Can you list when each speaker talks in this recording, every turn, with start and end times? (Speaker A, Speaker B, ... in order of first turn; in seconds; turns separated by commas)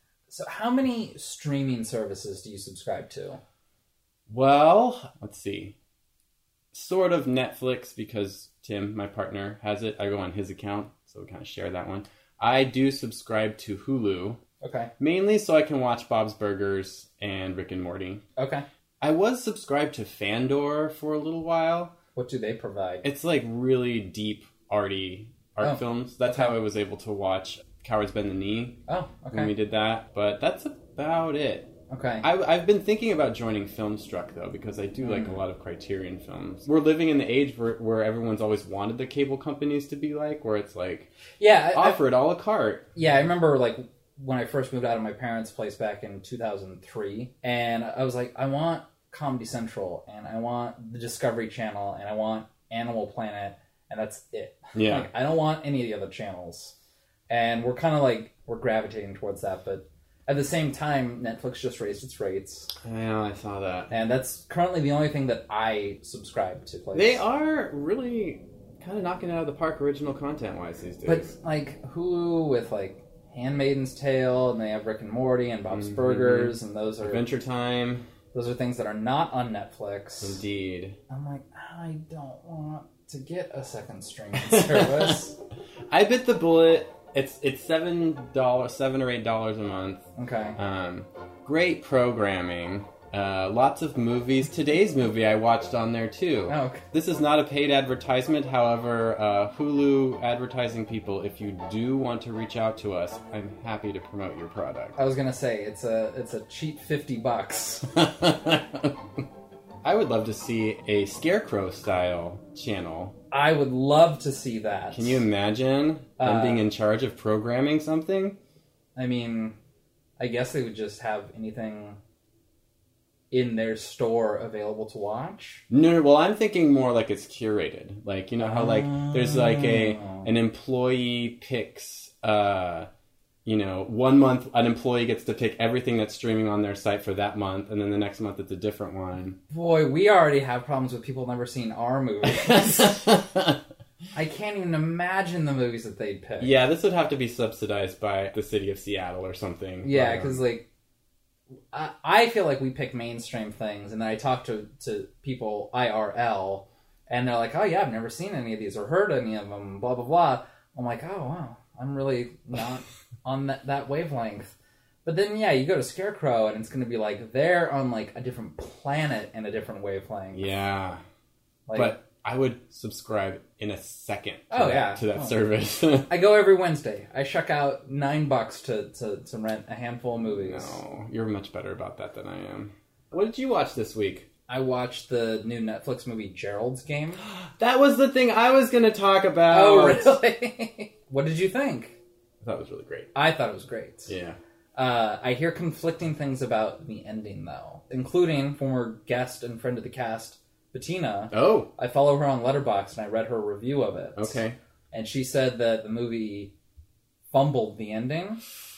Speaker A: 0.3-3.4, Speaker B: 4.3-5.7, Speaker B: 6.7-14.4, Speaker A: 14.6-14.9, Speaker B: 15.0-18.2, Speaker A: 18.4-18.6, Speaker B: 19.0-21.9, Speaker A: 22.1-23.0, Speaker B: 23.0-28.8, Speaker A: 25.6-26.5, Speaker A: 28.9-29.5, Speaker B: 29.3-41.1, Speaker A: 31.9-32.2, Speaker A: 35.0-35.4, Speaker A: 41.4-42.0, Speaker B: 41.7-42.9, Speaker A: 42.9-56.7, Speaker B: 54.7-55.1, Speaker A: 57.3-62.7, Speaker B: 62.8-63.9, Speaker A: 63.9-67.2, Speaker B: 66.9-71.3, Speaker A: 71.0-77.3, Speaker B: 75.7-78.0, Speaker A: 78.3-80.4, Speaker B: 80.2-81.0, Speaker A: 81.1-85.3, Speaker B: 84.5-85.1, Speaker B: 85.9-90.0, Speaker A: 90.2-90.6, Speaker B: 90.6-105.0, Speaker A: 96.5-96.8, Speaker A: 105.0-107.8, Speaker B: 107.9-109.0, Speaker B: 109.8-113.2, Speaker A: 113.3-115.2, Speaker B: 114.9-118.4, Speaker A: 116.2-116.7, Speaker A: 119.0-119.6, Speaker A: 120.2-122.0, Speaker A: 123.3-125.6, Speaker B: 125.7-132.9, Speaker A: 128.4-130.3, Speaker B: 133.4-139.4, Speaker A: 139.5-143.0, Speaker B: 142.2-143.6, Speaker A: 144.1-146.5, Speaker B: 146.4-150.4, Speaker A: 149.8-150.7, Speaker A: 151.7-164.5, Speaker A: 165.0-170.5, Speaker B: 170.3-171.0, Speaker A: 171.7-171.9, Speaker B: 171.7-176.1, Speaker A: 174.5-175.4, Speaker A: 176.1-180.8, Speaker B: 180.3-184.3, Speaker A: 184.5-187.2, Speaker B: 187.2-190.1, Speaker A: 189.5-192.0, Speaker B: 192.4-193.1, Speaker A: 193.1-194.1, Speaker B: 194.1-194.4, Speaker A: 194.7-206.5, Speaker B: 201.3-201.7, Speaker B: 204.2-204.6, Speaker A: 207.3-208.4